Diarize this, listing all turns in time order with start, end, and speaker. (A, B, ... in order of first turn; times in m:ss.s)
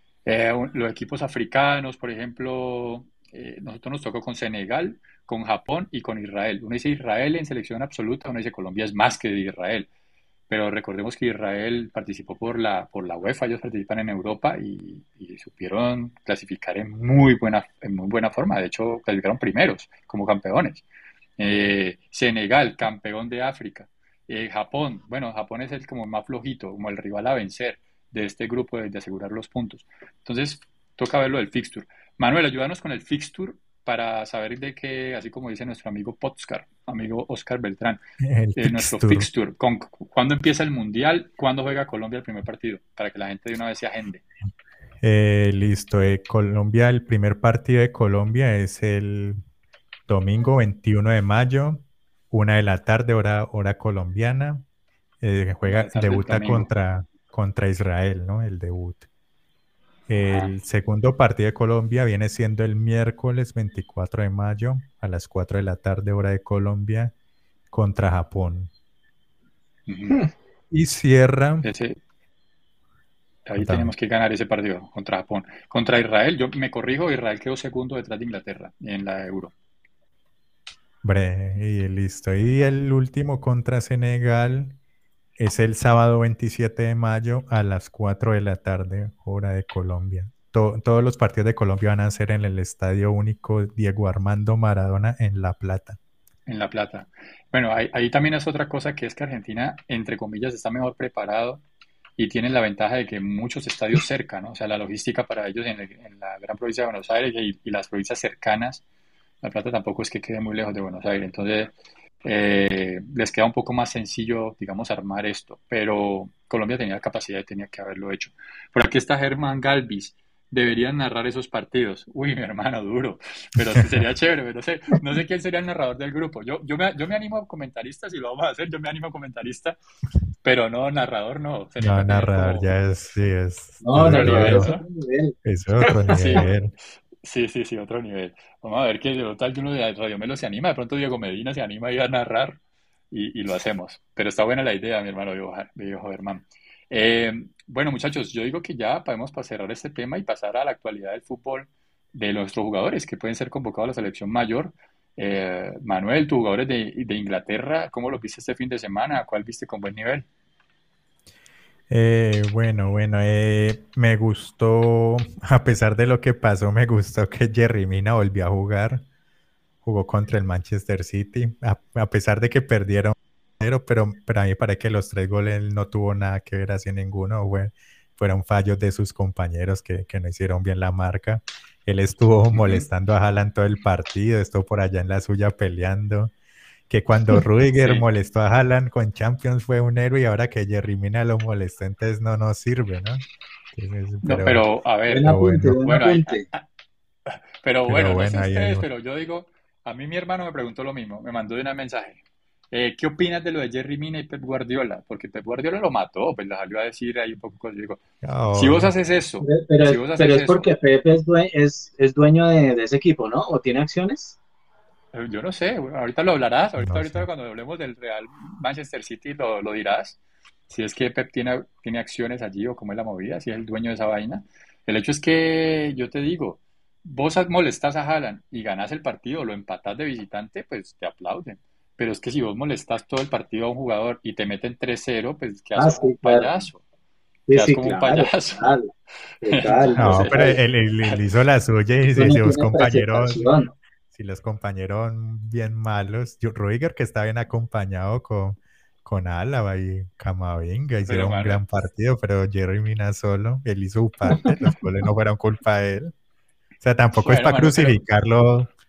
0:00.2-0:09.9 A
0:10.5-0:20.8 A
0:21.4-0:38.0 A
0:38.2-0:39.3 B
0:38.6-0:44.2 A
0:45.0-0:49.4 B
0:50.1-0:54.6 B
0:55.2-0:59.0 B
0:55.6-0:56.7 A
1:00.1-1:07.1 B
1:07.7-1:08.7 B
1:09.9-1:10.2 A
1:10.7-1:11.6 B
1:11.6-1:12.0 A
1:13.4-1:19.5 A
1:13.6-1:13.9 B
1:21.0-1:24.8 B
1:25.4-1:36.0 B
1:36.5-1:41.6 A
1:42.2-1:48.8 A
1:49.4-2:09.8 A
2:10.4-2:12.7 A
2:11.8-2:14.7 B
2:13.8-2:15.4 C
2:14.0-2:14.8 A
2:15.4-2:16.7 B
2:15.8-2:16.5 A
2:17.2-2:22.6 A
2:23.1-2:40.3 A
2:41.9-2:49.0 B
2:49.8-3:06.3 B
3:02.5-3:02.8 A
3:06.9-3:14.6 B
3:07.8-3:08.0 A
3:14.2-3:16.7 A
3:15.1-3:16.5 C
3:15.2-3:15.8 B
3:17.2-3:22.2 A
3:17.8-3:18.8 B
3:22.7-3:28.0 A
3:28.2-3:28.9 B
3:28.5-3:30.7 A
3:29.4-3:34.4 C
3:35.1-3:40.2 A
3:36.8-3:37.2 B
3:40.7-3:56.8 A
3:55.8-3:56.6 C
3:57.5-3:58.9 C
3:57.5-3:58.8 A
3:59.4-4:00.6 C
3:59.4-4:00.5 A
4:00.0-4:03.5 B
4:02.1-4:03.7 C
4:04.1-4:16.1 B
4:11.0-4:11.6 A
4:16.8-4:18.7 B
4:17.2-4:18.0 A